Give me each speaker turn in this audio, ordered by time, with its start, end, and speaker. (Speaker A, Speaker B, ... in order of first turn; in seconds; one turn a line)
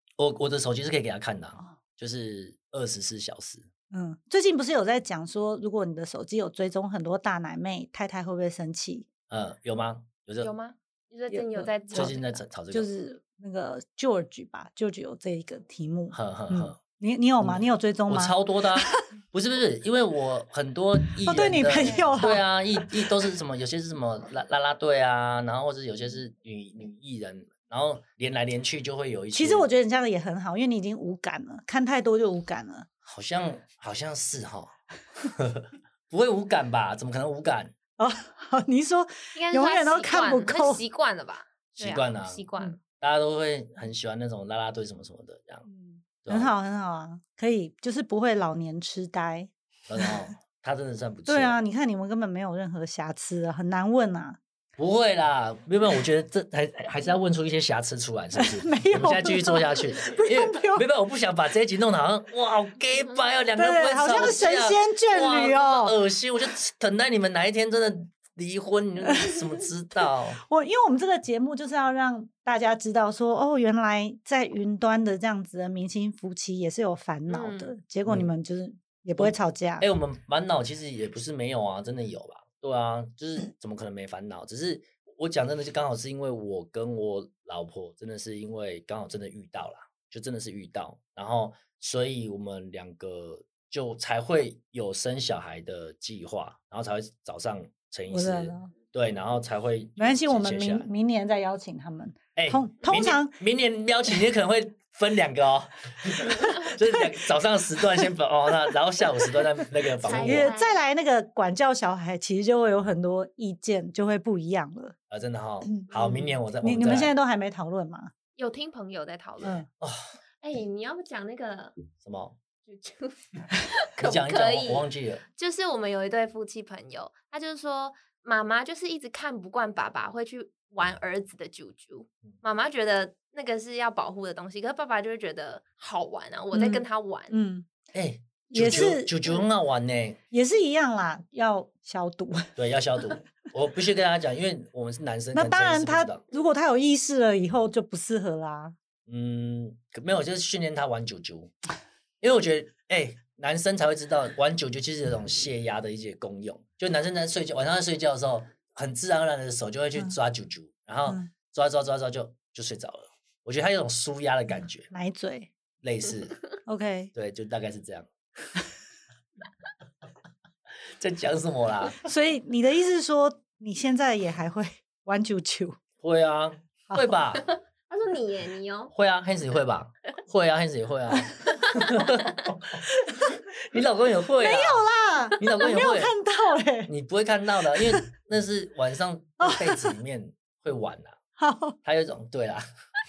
Speaker A: 0.2-3.7
Speaker B: 3.9-9.1
Speaker A: 9.3-10.5
Speaker C: 10.4-12.4
Speaker B: 11.3-12.2
Speaker A: 11.9-12.9
Speaker B: 12.7-18.9
Speaker A: 16.1-16.8
Speaker A: 17.4-29.7
Speaker B: 21.2-22.4
Speaker B: 29.3-32.9
Speaker A: 33.0-37.7
Speaker B: 38.0-40.8
Speaker C: 39.4-42.8
Speaker A: 41.8-42.5
Speaker A: 43.0-45.6
Speaker B: 45.6-49.5
Speaker A: 46.2-46.5
Speaker A: 49.9-51.6
Speaker B: 51.3-54.4
Speaker A: 54.8-70.4
Speaker B: 58.4-60.9
Speaker B: 63.6-66.0
Speaker B: 70.4-79.9
Speaker C: 77.3-77.7
Speaker A: 79.2-100.9
Speaker B: 98.1-98.7
Speaker B: 100.0-103.3
Speaker A: 102.4-110.5
Speaker B: 106.5-107.1
Speaker C: 110.0-110.8
Speaker B: 110.2-115.0
Speaker A: 115.1-117.1
Speaker B: 115.7-118.1
Speaker C: 115.9-116.2
Speaker C: 118.4-119.6
Speaker A: 119.8-120.2
Speaker C: 120.4-121.8
Speaker A: 122.0-122.4
Speaker C: 122.7-137.3
Speaker A: 124.0-125.2
Speaker B: 136.5-137.7
Speaker A: 137.9-140.2
Speaker B: 138.5-139.2
Speaker B: 140.3-142.6
Speaker A: 142.6-146.2
Speaker B: 145.3-148.8
Speaker A: 149.1-151.5
Speaker A: 152.2-164.9
Speaker B: 164.9-165.5
Speaker A: 165.8-166.4
Speaker B: 166.7-167.1
Speaker A: 167.1-168.1
Speaker A: 171.0-172.0
Speaker B: 172.0-175.8
Speaker A: 176.0-177.4
Speaker B: 176.9-177.2
Speaker C: 177.4-178.9
Speaker A: 178.9-184.9
Speaker B: 184.4-186.9
Speaker A: 185.4-186.2
Speaker A: 186.9-191.2
Speaker B: 187.8-188.1
Speaker B: 189.4-189.9
Speaker B: 191.4-191.8
Speaker A: 191.8-192.7